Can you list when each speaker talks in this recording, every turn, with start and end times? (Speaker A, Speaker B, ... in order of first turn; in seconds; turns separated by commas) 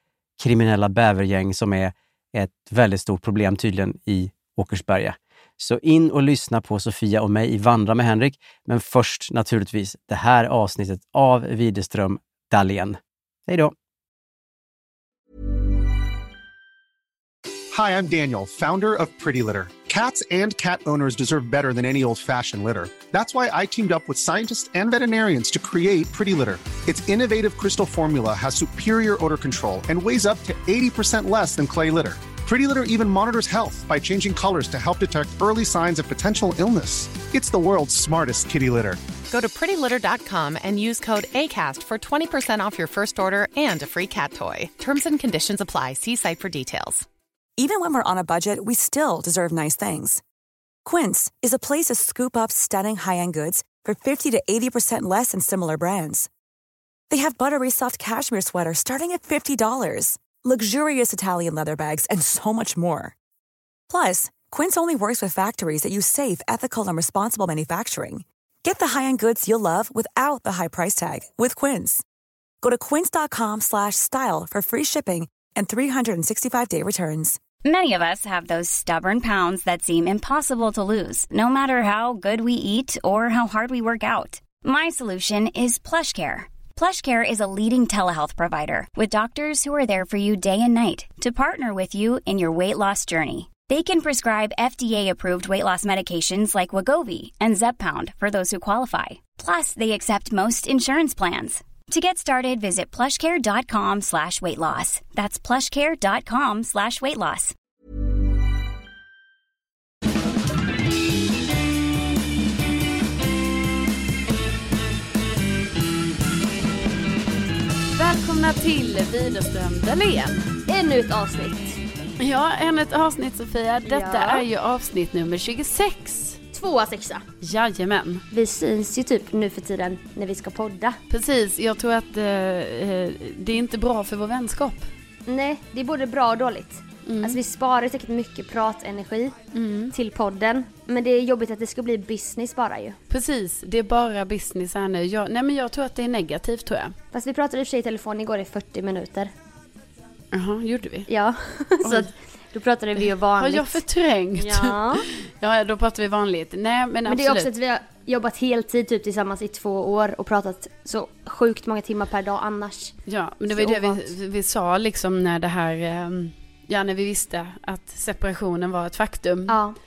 Speaker A: 0.4-13.7, Speaker B: 17.7-39.0, Speaker C: 39.3-47.1, Speaker D: 47.6-50.2, Speaker D: 50.9-56.3, Speaker D: 57.1-63.1, Speaker D: 63.9-72.0, Speaker D: 72.6-77.4, Speaker E: 77.6-107.5, Speaker F: 117.9-120.5, Speaker G: 120.7-121.8, Speaker F: 122.2-126.4, Speaker G: 123.9-124.5, Speaker G: 126.5-127.2, Speaker F: 127.4-128.2, Speaker G: 128.3-131.0, Speaker F: 131.1-134.9, Speaker G: 135.3-139.3, Speaker F: 137.1-137.4, Speaker F: 139.5-139.9, Speaker G: 139.9-143.0, Speaker F: 143.1-146.9, Speaker G: 147.1-149.3, Speaker F: 150.3-151.1, Speaker G: 151.1-153.8, Speaker F: 153.0-157.5, Speaker G: 154.4-155.1, Speaker G: 157.1-162.9, Speaker F: 163.1-169.6, Speaker G: 163.5-164.1, Speaker G: 169.5-169.8